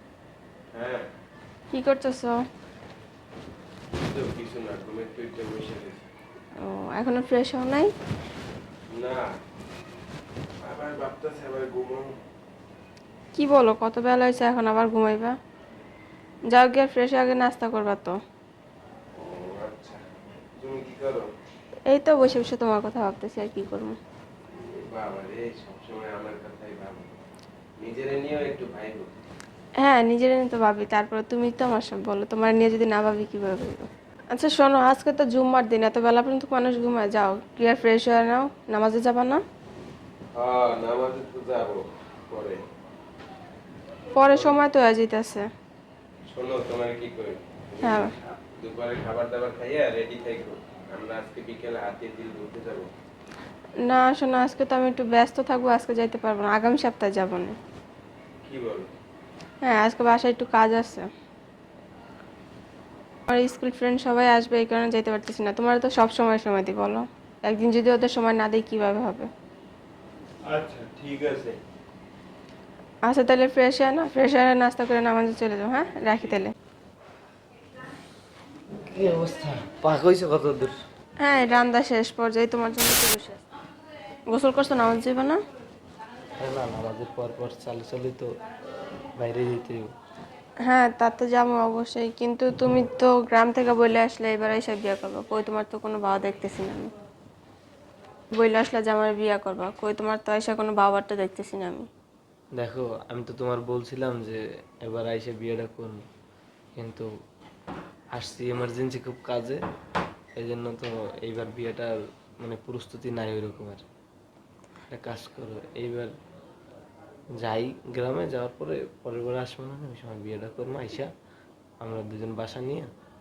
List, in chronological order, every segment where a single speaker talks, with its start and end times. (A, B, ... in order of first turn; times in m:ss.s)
0:00.7-0:01.1 A
0:01.7-0:02.4 B
0:04.0-0:06.0 A
0:06.6-0:07.9 B
0:08.9-0:09.3 A
0:10.6-0:12.2 A
0:13.3-0:15.4 B
0:16.5-0:18.1 B
0:19.1-0:20.0 A
0:20.6-0:21.3 A
0:21.9-0:24.0 B
0:24.8-0:27.2 A
0:27.8-0:29.1 A
0:29.8-0:39.4 B
0:40.3-0:42.6 A
0:44.1-0:45.4 B
0:46.3-0:52.9 A
0:47.8-0:48.1 B
0:53.8-0:57.6 B
0:58.4-0:58.9 A
0:59.6-1:01.1 B
1:03.3-1:09.3 B
1:10.4-1:11.6 A
1:13.0-1:16.5 B
1:18.8-1:20.7 C
1:21.2-1:23.4 B
1:24.3-1:25.4 B
1:26.4-1:28.3 C
1:29.2-1:29.9 C
1:30.6-1:36.9 B
1:38.3-1:41.9 B
1:42.5-1:46.0 C
1:46.8-1:47.1 C
1:48.1-1:49.6 C
1:50.4-1:53.8 C
1:54.9-1:56.1 C
1:57.4-2:01.1 C
2:01.8-2:02.9 C